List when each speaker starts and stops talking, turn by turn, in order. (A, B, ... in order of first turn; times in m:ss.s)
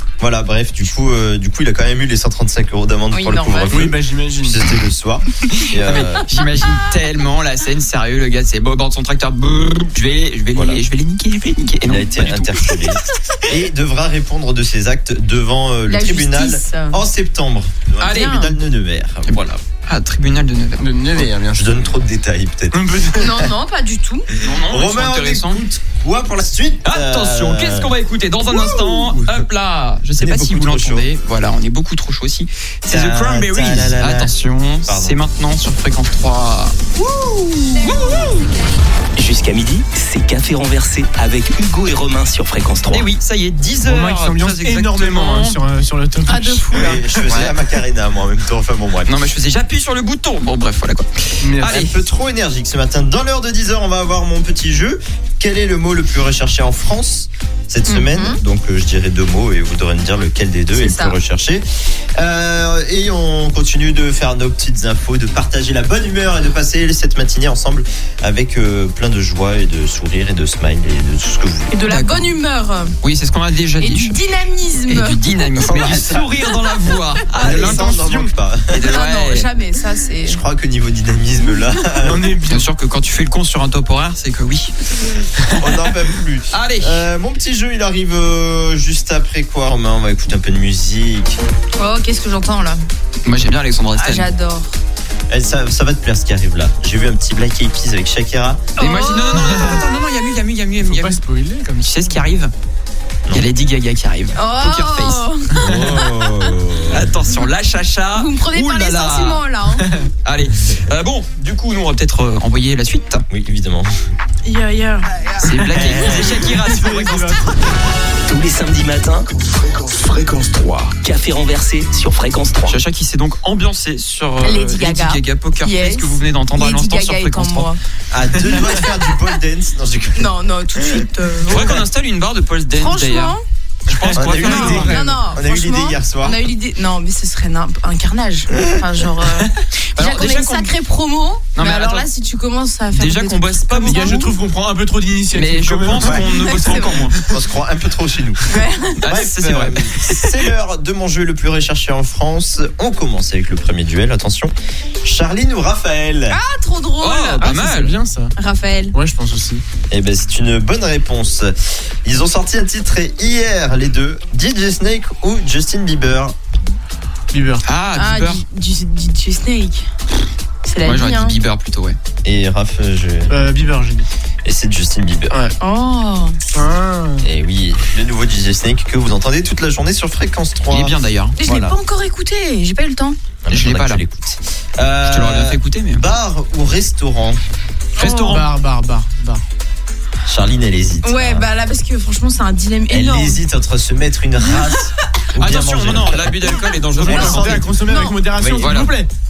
0:00.2-0:06.3 A
0:03.1-0:03.9 B
0:03.7-0:04.6 C
0:05.5-0:12.9 D
0:10.5-0:10.8 A
0:11.8-0:19.6 A
0:15.9-0:17.0 B
0:18.0-0:18.5 D
0:18.0-0:18.6 B
0:19.3-0:20.9 D
0:20.8-0:21.9 C
0:21.2-0:23.5 A
0:22.7-0:23.3 C
0:23.2-0:24.3 B
0:24.4-0:27.9 A
0:24.4-0:25.6 D
0:26.8-0:36.8 D
0:28.5-0:29.4 A
0:30.2-0:31.1 A
0:32.9-0:34.4 A
0:34.9-0:35.2 A
0:37.8-0:38.5 D
0:39.2-0:43.1 E
0:42.9-0:45.6 D
0:43.8-0:46.9 C
0:46.2-0:47.1 B
0:46.7-0:49.2 A
0:47.3-0:47.5 D
0:49.1-0:52.0 D
0:51.4-0:51.8 C
0:51.6-1:11.8 A
0:57.9-0:58.4 B
1:00.7-1:01.2 B
1:11.7-1:13.0 B
1:11.9-1:12.3 D
1:13.0-1:14.2 D
1:13.8-1:15.2 B
1:14.9-1:18.2 D
1:15.6-1:16.5 A
1:17.4-1:18.9 A
1:17.4-1:18.3 C
1:18.7-1:19.5 D
1:18.8-1:20.4 B
1:20.2-1:22.3 A
1:22.0-1:22.7 C
1:22.5-1:25.8 D
1:25.6-1:31.4 A
1:26.5-1:27.0 D
1:31.8-1:32.8 B
1:33.2-1:34.3 D
1:34.0-1:34.8 B
1:35.3-1:38.6 A
1:38.8-1:39.8 B
1:38.8-1:41.2 D
1:39.4-1:39.9 C
1:40.8-1:42.2 C
1:41.8-1:42.5 D
1:43.3-1:45.3 D
1:44.4-1:46.5 B
1:45.6-1:47.1 A
1:45.6-1:46.0 C
1:46.9-1:49.4 D
1:48.1-1:49.9 B
1:49.8-1:50.1 C
1:50.2-1:53.2 D
1:53.3-1:53.9 A
1:54.4-1:55.1 B
1:55.4-1:57.8 C
1:55.4-1:57.5 D
1:55.7-1:56.4 A
1:58.2-2:02.8 E
2:02.7-2:07.7 D
2:04.4-2:07.8 B
2:08.1-2:11.8 A
2:08.5-2:08.8 B
2:10.2-2:11.8 B
2:11.5-2:15.0 D
2:12.7-2:13.4 B
2:13.9-2:15.2 C
2:14.1-2:16.4 A
2:14.4-2:24.4 B
2:18.6-2:18.8 A
2:20.0-2:20.7 D
2:21.6-2:22.1 D
2:22.9-2:24.2 D
2:23.8-2:27.4 C
2:25.3-2:27.2 D
2:26.0-2:26.2 A
2:26.3-2:27.1 B
2:27.2-2:28.5 A
2:28.5-2:29.0 B
2:29.0-2:29.9 D
2:29.0-2:36.4 A
2:36.3-2:37.5 B
2:37.0-2:38.0 D
2:37.4-2:38.3 C
2:38.4-2:39.0 B
2:38.9-2:39.6 C
2:39.9-2:46.4 A
2:47.3-2:47.6 C
2:47.6-2:48.4 D
2:48.0-2:49.9 B
2:50.6-2:51.4 B
2:50.8-2:52.0 D
2:52.2-2:53.5 A
2:53.3-2:54.1 C
2:54.4-2:55.4 A
2:55.3-2:55.6 C
2:55.6-2:56.4 B
2:56.5-2:57.3 C
2:57.2-3:01.8 A
3:00.7-3:01.4 D
3:01.4-3:03.2 B
3:03.4-3:07.4 A
3:03.5-3:04.0 D
3:05.1-3:06.0 D
3:08.0-3:08.4 B
3:08.0-3:08.5 D
3:08.2-3:09.4 C
3:10.2-3:11.5 A
3:11.0-3:13.4 B
3:12.9-3:17.6 A
3:15.4-3:17.8 D
3:17.0-3:19.1 C
3:17.1-3:18.2 B
3:18.4-3:18.7 A
3:18.6-3:19.0 D